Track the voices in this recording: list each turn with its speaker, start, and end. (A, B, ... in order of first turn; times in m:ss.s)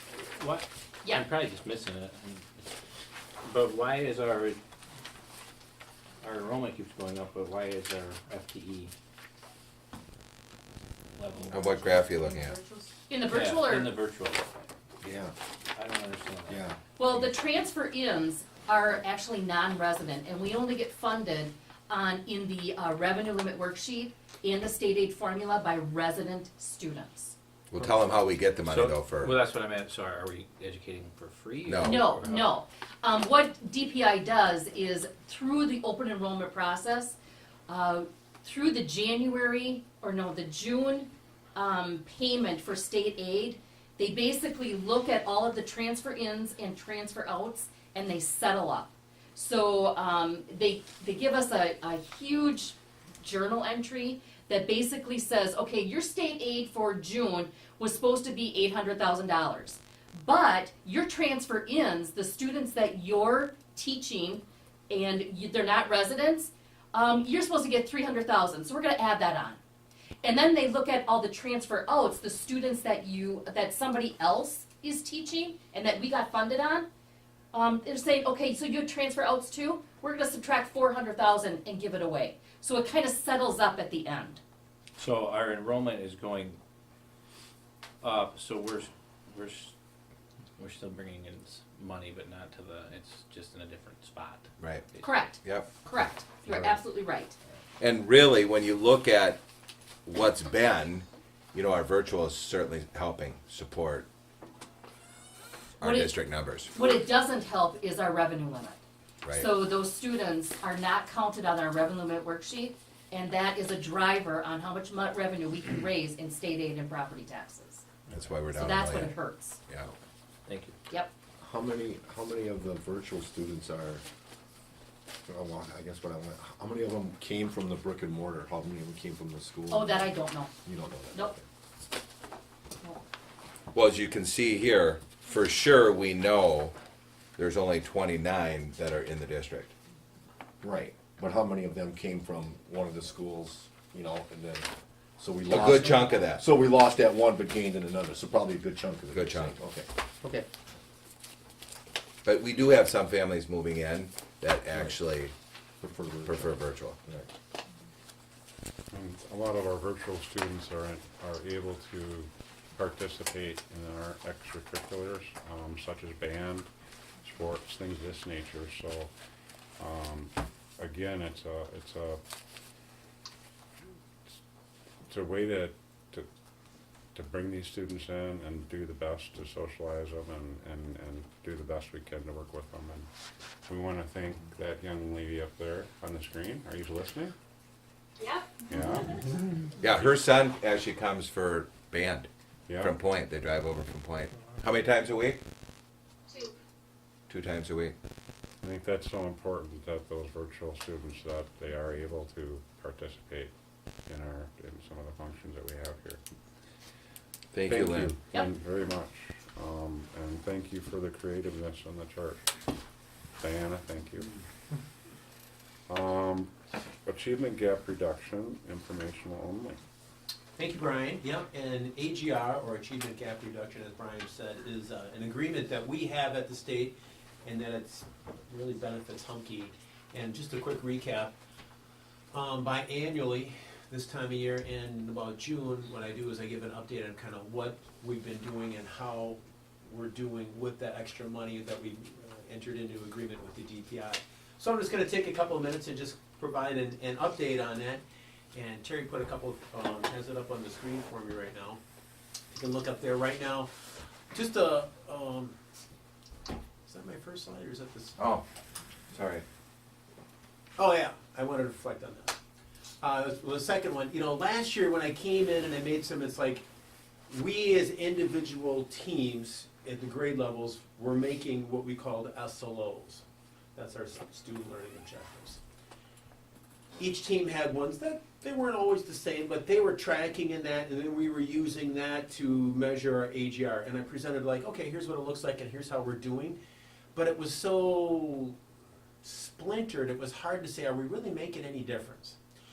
0:00.4-0:02.7 A
0:03.4-0:04.6 A
0:06.2-0:08.9 A
0:11.2-0:11.8 A
0:11.5-0:12.6 B
0:13.1-0:14.0 C
0:13.3-0:14.7 A
0:15.0-0:15.3 D
0:15.7-0:16.6 A
0:16.5-0:16.8 D
0:17.0-0:27.4 C
0:27.7-0:29.3 B
0:27.8-0:28.1 A
0:28.6-0:32.5 A
0:31.7-0:32.0 B
0:31.8-0:37.2 C
0:37.7-1:09.6 C
1:10.2-1:16.9 C
1:17.5-1:24.4 C
1:25.0-1:26.6 A
1:28.0-1:29.7 A
1:30.6-1:35.0 A
1:34.6-1:34.8 B
1:35.0-1:37.4 C
1:35.4-1:35.7 B
1:36.5-1:36.7 B
1:37.8-1:39.4 B
1:40.1-1:44.1 B
1:45.8-1:46.7 B
1:45.8-1:46.1 C
1:46.7-1:48.8 C
1:49.2-1:49.5 B
1:49.3-1:57.8 C
1:58.1-1:59.2 B
1:58.5-1:59.6 C
2:00.5-2:00.8 A
2:01.4-2:04.0 D
2:05.3-2:10.1 D
2:09.7-2:10.5 C
2:10.6-2:11.4 D
2:13.7-2:16.8 B
2:17.4-2:19.7 B
2:20.6-2:24.7 D
2:25.2-2:29.9 D
2:25.5-2:26.4 B
2:29.1-2:29.5 B
2:32.2-2:35.3 B
2:35.8-2:37.3 D
2:36.3-2:37.0 B
2:38.9-2:46.7 E
2:47.2-2:49.1 E
2:49.8-2:52.2 E
2:55.1-2:56.3 E
2:57.2-3:03.1 E
3:03.7-3:07.3 E
3:08.6-3:09.2 E
3:09.8-3:15.4 B
3:12.7-3:12.9 E
3:17.3-3:18.0 B
3:18.6-3:23.5 E
3:24.1-3:26.2 E
3:27.5-3:28.1 B
3:27.7-3:32.4 E
3:33.4-3:34.4 E
3:35.9-3:36.5 E
3:37.0-3:39.8 E
3:40.6-3:51.4 F
3:52.3-4:11.8 F
4:12.5-4:13.7 F
4:14.3-4:15.5 F
4:16.9-4:18.2 F
4:18.2-4:18.4 B
4:19.1-4:19.4 B
4:20.8-4:22.4 F
4:23.0-4:26.6 F
4:27.3-4:33.2 F
4:33.8-4:35.6 F
4:37.0-4:46.6 F
4:47.2-4:48.6 F
4:49.2-4:52.4 F